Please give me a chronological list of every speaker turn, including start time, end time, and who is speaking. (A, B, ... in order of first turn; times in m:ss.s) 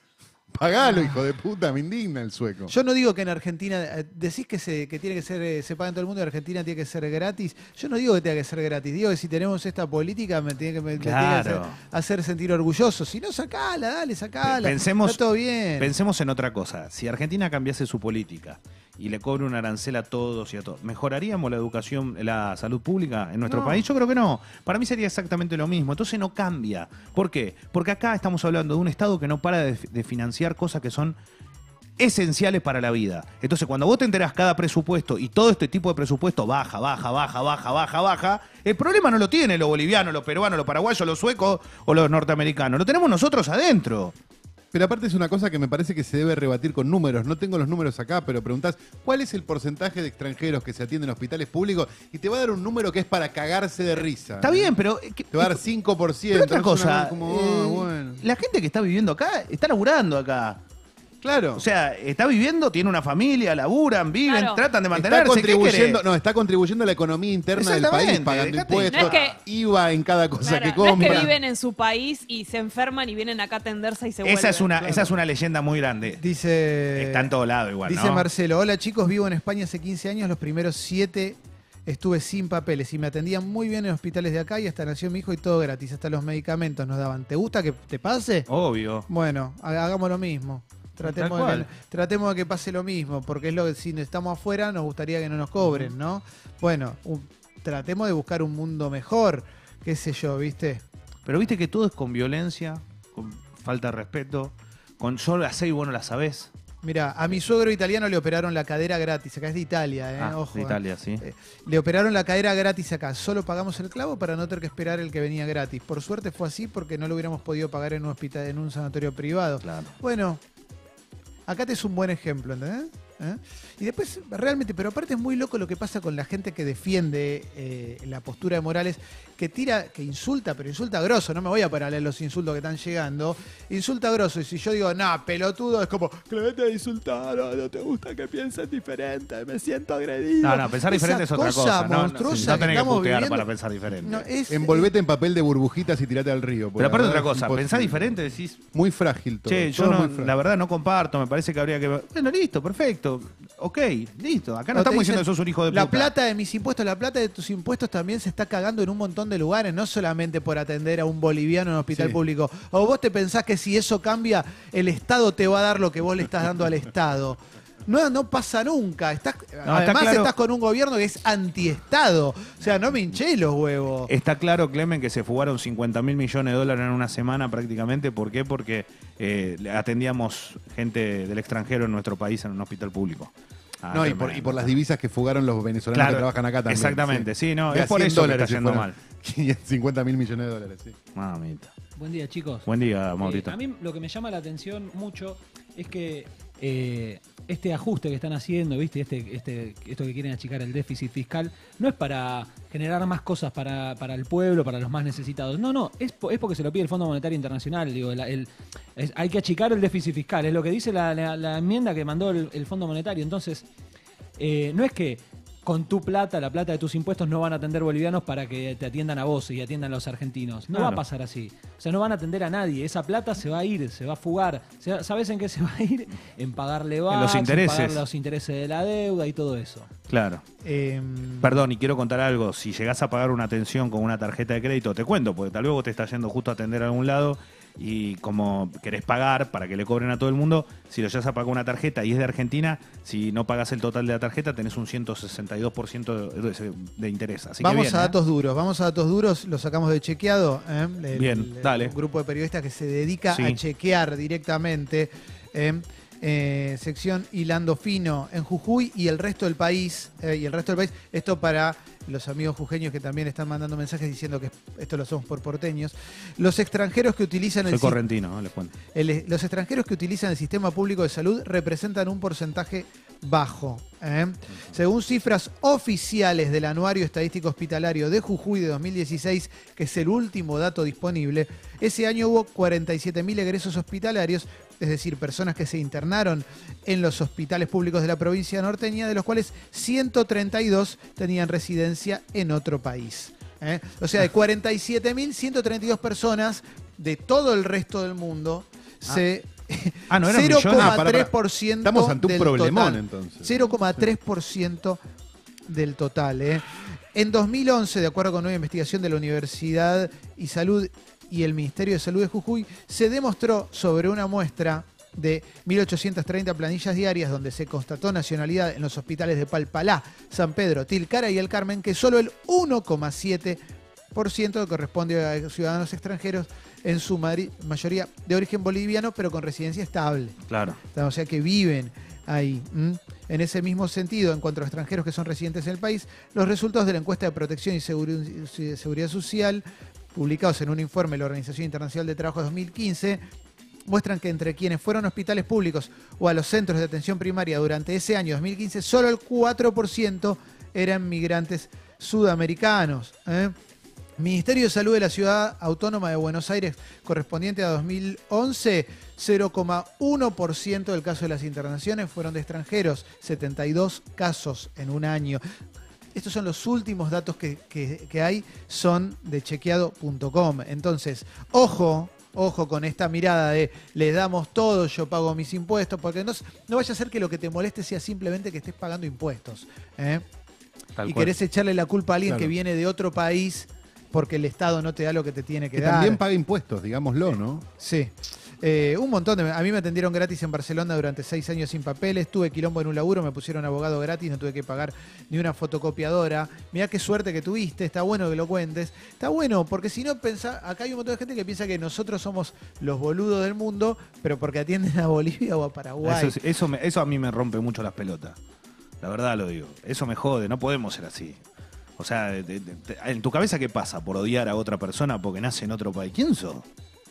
0:00.5-0:02.7 A
0:00.8-0:01.2 B
0:02.7-0:15.9 B
0:11.0-0:11.8 C
0:14.4-0:15.2 C
0:15.8-0:31.2 C
0:23.5-0:23.8 A
0:32.0-0:44.1 C
0:44.7-0:54.7 A
0:54.4-0:55.6 C
0:55.3-0:58.2 A
0:56.3-1:00.6 C
1:01.2-1:01.6 A
1:01.6-1:06.0 C
1:04.2-1:04.6 D
1:04.9-1:11.3 A
1:07.5-1:09.2 C
1:08.9-1:09.4 D
1:10.4-1:14.7 D
1:11.0-1:11.3 B
1:14.2-1:16.2 C
1:16.2-1:17.3 B
1:16.9-1:18.3 C
1:17.8-1:28.5 B
1:28.5-1:29.1 C
1:29.1-1:40.8 B
1:31.0-1:31.7 C
1:35.6-1:35.9 C
1:41.2-1:46.5 C
1:46.8-2:00.4 B
1:50.2-1:51.2 C
1:59.6-1:59.9 C
2:01.5-2:23.5 B
2:20.4-2:24.3 C
2:22.3-2:22.7 A
2:24.0-2:24.9 B
2:24.5-2:30.3 A
2:26.8-2:28.6 C
2:29.4-2:36.1 C
2:34.7-2:54.1 B
2:49.6-2:50.3 C
2:54.1-3:04.8 C
3:03.9-3:11.0 A
3:05.9-3:09.0 C
3:11.1-3:11.7 C
3:12.0-3:12.7 E
3:12.6-3:13.5 C
3:13.2-3:33.6 E
3:34.4-3:49.9 E
3:40.7-3:41.0 C
3:47.1-3:48.0 C
3:50.1-3:50.4 C
3:50.6-3:51.6 B
3:51.4-4:08.1 C
4:07.6-4:28.0 B
4:11.1-4:11.9 C
4:13.3-4:13.6 C
4:27.7-4:28.7 C
4:28.9-5:05.0 B
5:00.1-5:01.0 C
5:00.7-5:03.6 A
5:05.7-5:23.6 B
5:24.1-5:30.4 B
5:30.5-5:30.8 C
5:30.9-5:43.2 B
5:43.9-5:53.5 B
5:54.2-6:05.4 B
6:06.1-6:20.2 B
6:21.0-6:21.3 C
6:21.0-6:26.2 B
6:22.3-6:22.5 A
6:25.8-6:27.6 A
6:27.8-6:46.4 B
6:46.0-6:48.4 C
6:49.0-6:51.4 C
6:52.0-6:56.6 C